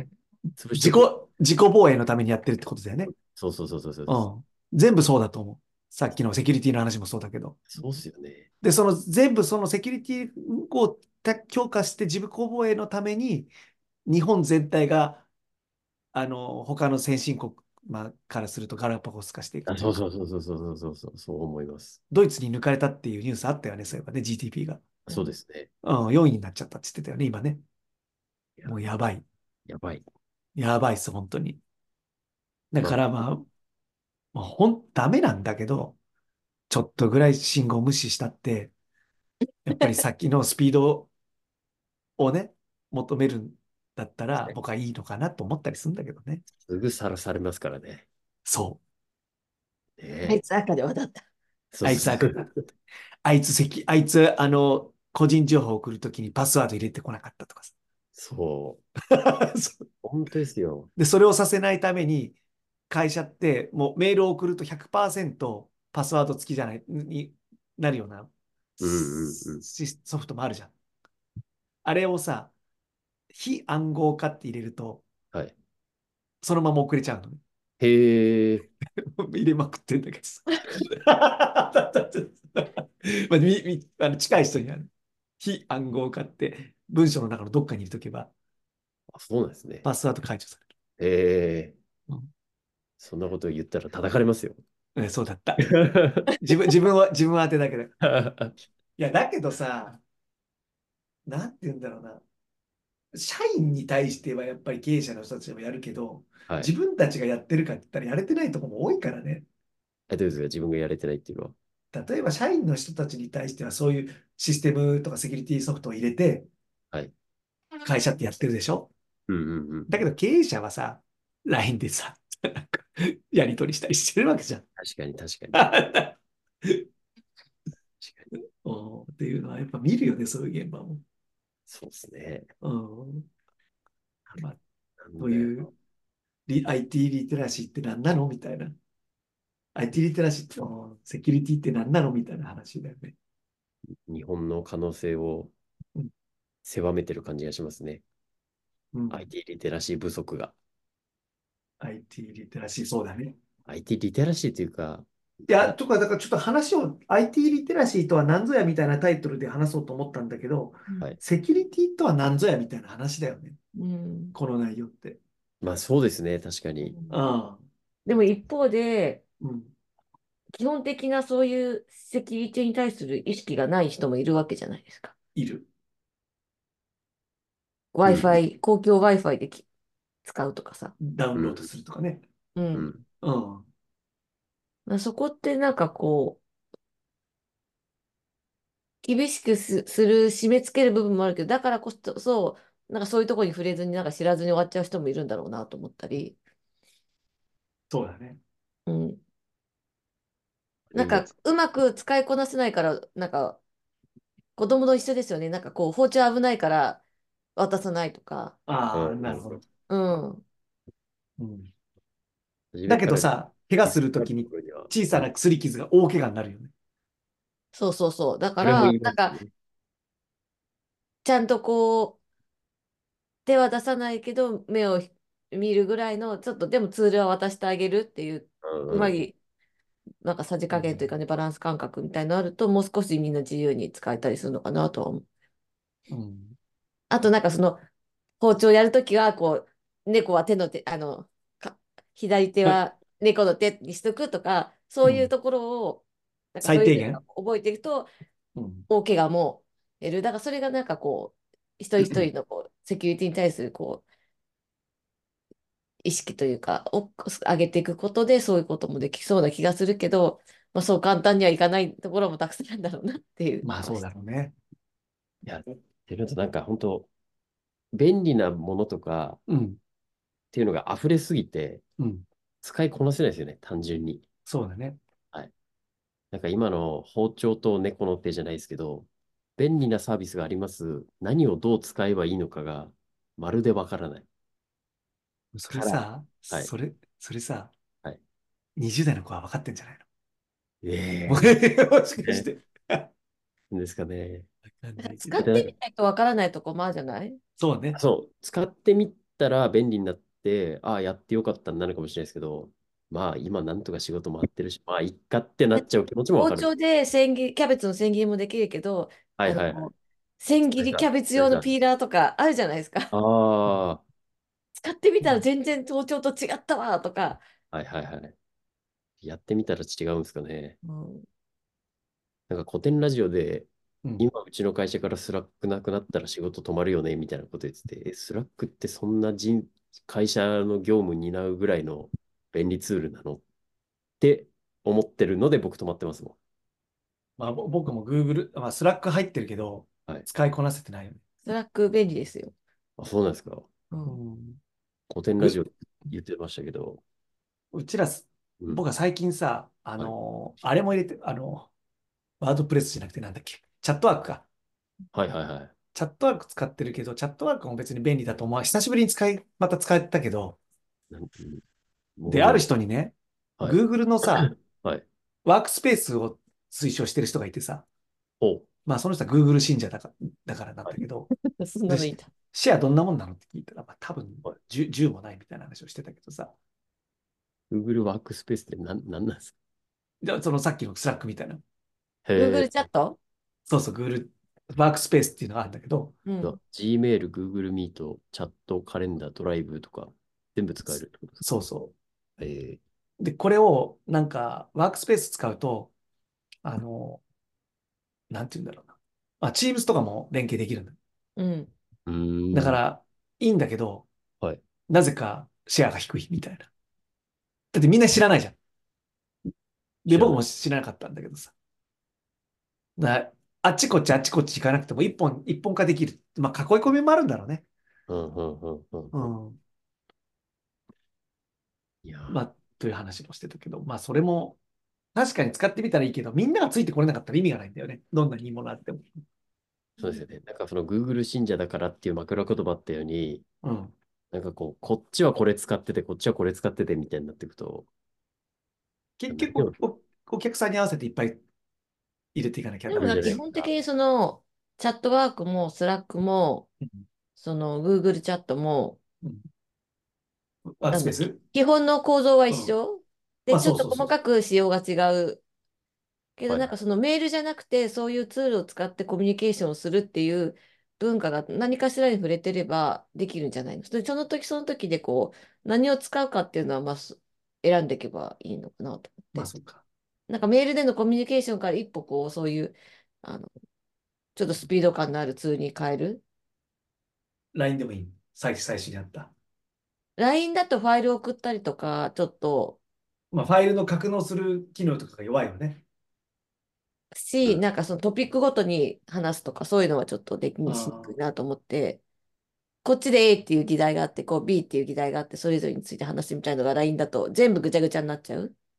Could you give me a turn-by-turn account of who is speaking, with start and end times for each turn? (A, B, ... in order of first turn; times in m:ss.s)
0:00.6-0:01.1 A
0:00.8-0:03.1 B
0:03.1-0:04.2 A
0:04.1-0:07.6 B
0:07.7-0:08.5 A
0:08.6-0:13.5 B
0:14.0-0:15.2 B
0:16.1-0:20.0 B
0:19.6-0:22.0 A
0:22.1-0:24.8 B
0:25.0-0:25.7 A
0:25.8-0:27.6 B
0:28.6-0:29.2 B
0:29.7-0:30.0 A
0:30.6-0:31.6 B
0:32.7-0:33.5 B
0:34.3-0:36.0 B
0:36.7-0:38.7 B
0:39.6-0:41.1 B
0:42.2-0:46.4 B
0:46.6-0:48.0 A
0:48.4-0:48.8 B
0:50.0-0:50.4 A
0:50.2-0:51.2 C
0:51.7-0:52.4 A
0:51.8-0:52.6 B
0:53.2-0:57.7 B
0:58.1-0:58.8 A
0:59.1-0:59.9 B
1:00.0-1:00.9 A
1:01.0-1:02.4 B
1:02.9-1:10.7 B
1:08.8-1:09.6 A
1:11.8-1:12.5 B
1:13.3-1:15.0 B
1:16.4-1:17.4 B
1:17.8-1:18.7 A
1:19.0-1:24.9 B
1:25.4-1:28.3 B
1:29.1-1:29.8 A
1:29.8-1:30.6 B
1:31.0-1:31.7 A
1:33.0-1:34.6 A
1:35.0-1:38.0 B
1:35.6-1:36.3 A
1:38.0-1:38.6 A
1:39.0-1:40.0 B
1:41.3-1:42.2 B
1:43.1-1:49.4 B
1:50.1-1:51.5 A
1:51.9-1:56.5 B
1:57.8-1:58.9 B
1:59.3-2:00.1 A
1:59.9-2:04.6 B
2:04.8-2:05.6 A
2:05.5-2:06.8 B
2:08.0-2:08.3 A
2:08.6-2:11.0 B
2:11.7-2:12.5 A
2:12.6-2:13.3 B
2:15.0-2:15.6 A
2:15.2-2:15.7 B
2:16.5-2:18.8 B
2:19.7-2:23.1 B
2:24.1-2:25.5 A
2:26.6-2:28.0 A
2:28.9-2:29.2 B
2:29.1-2:30.5 A
2:31.8-2:33.4 B
2:33.7-2:35.7 A
2:35.5-2:43.6 B
2:43.8-2:44.4 C
2:44.3-2:45.2 B
2:45.6-2:47.0 A
2:46.8-2:47.2 C
2:47.1-2:47.6 B
2:48.0-2:49.2 C
2:49.4-2:49.7 B
2:50.5-2:55.1 C
2:55.3-2:55.7 B
2:57.9-2:59.6 C
2:58.0-2:58.4 A
3:00.2-3:00.9 C
3:01.0-3:02.2 B
3:01.4-3:01.6 A
3:02.6-3:02.9 C
3:02.7-3:03.0 A
3:03.2-3:03.7 B
3:04.9-3:06.4 C
3:09.0-3:16.4 C
3:17.9-3:18.4 B
3:18.9-3:19.2 C
3:20.9-3:21.3 A
3:20.9-3:23.6 C
3:24.6-3:27.0 C
3:27.6-3:28.6 C
3:28.7-3:29.6 B
3:28.9-3:29.6 A
3:29.9-3:30.4 C
3:31.4-3:31.7 B
3:32.7-3:33.3 A
3:32.9-3:36.7 B
3:33.8-3:35.3 A
3:37.7-3:39.3 C
3:38.6-3:39.5 A
3:41.2-3:42.2 C
3:43.4-3:49.3 C
3:48.6-3:49.1 A
3:50.2-3:55.2 C
3:50.7-3:51.1 B
3:56.1-3:56.6 B
3:57.1-3:57.8 C
3:58.4-4:08.1 C
4:05.0-4:05.3 B
4:06.6-4:07.2 B
4:08.6-4:08.9 B
4:08.9-4:14.0 C
4:16.0-4:24.0 C
4:23.6-4:24.5 B
4:25.4-4:27.1 A
4:27.9-4:29.4 A
4:29.5-4:29.8 B
4:30.5-4:31.8 A
4:32.0-4:32.2 B
4:32.6-4:34.2 A
4:34.5-4:35.0 B
4:36.3-4:44.2 A
4:45.5-4:47.7 B
4:45.7-4:46.7 A
4:48.8-4:50.0 B
4:50.8-4:51.6 A
4:51.3-4:53.1 B
4:53.7-4:54.5 A
4:54.7-4:55.5 B
4:55.1-4:57.4 C
4:55.4-4:55.7 A
4:57.6-4:58.0 B
4:57.9-5:06.7 A
5:06.4-5:13.1 C
5:09.4-5:09.9 A
5:10.8-5:11.7 A
5:13.1-5:14.0 A
5:14.8-5:17.4 C
5:17.7-5:18.3 A
5:19.2-5:20.8 A
5:20.8-5:21.2 C
5:22.5-5:33.4 A
5:34.2-5:36.4 A
5:37.4-5:41.2 B
5:41.4-5:42.5 C
5:43.0-5:43.7 A
5:43.9-5:44.2 C
5:44.0-5:44.6 B
5:45.1-5:47.0 A
5:47.7-5:51.7 B
5:52.4-5:54.4 B
5:55.1-5:55.7 A
5:55.9-6:00.6 B
6:01.1-6:01.6 A
6:02.2-6:02.6 A
6:02.3-6:04.5 B
6:04.4-6:05.0 A
6:05.4-6:07.8 B
6:08.4-6:08.7 A
6:08.8-6:11.3 B
6:11.3-6:12.3 C
6:11.9-6:16.5 B
6:17.7-6:19.5 A
6:20.2-6:21.6 B
6:22.2-6:22.9 A
6:22.4-6:23.2 C
6:23.7-6:26.2 B
6:26.2-6:26.5 C
6:26.4-6:31.4 A
6:31.4-6:31.9 B
6:32.4-6:32.8 A
6:33.2-6:35.9 B
6:36.6-6:37.2 B
6:38.3-6:41.0 B
6:41.4-6:41.7 C
6:42.0-6:42.8 A
6:42.5-6:44.1 B
6:44.9-6:46.7 B
6:47.7-6:48.6 B
6:50.0-6:51.5 B
6:50.1-6:50.4 A
6:53.0-6:57.6 B
6:58.1-6:59.3 A
6:59.1-6:59.6 B
7:02.0-7:02.4 A
7:02.3-7:04.6 B
7:05.1-7:09.1 B
7:10.0-7:13.4 A
7:13.6-7:13.9 B
7:14.3-7:17.9 A
7:19.2-7:21.4 B
7:19.3-7:19.8 A
7:22.3-7:23.4 B
7:22.9-7:26.7 C
7:23.0-7:23.7 A
7:27.4-7:29.0 C
7:30.8-7:31.4 B
7:30.9-7:35.4 C
7:33.5-7:34.1 B
7:36.4-7:49.5 C
7:49.3-7:49.8 B
7:50.3-7:53.5 C
7:54.4-7:56.2 C
7:57.5-7:59.3 B
8:00.2-8:02.8 C
8:03.3-8:05.8 B
8:07.1-8:12.0 C
8:10.6-8:11.1 B
8:12.8-8:18.5 C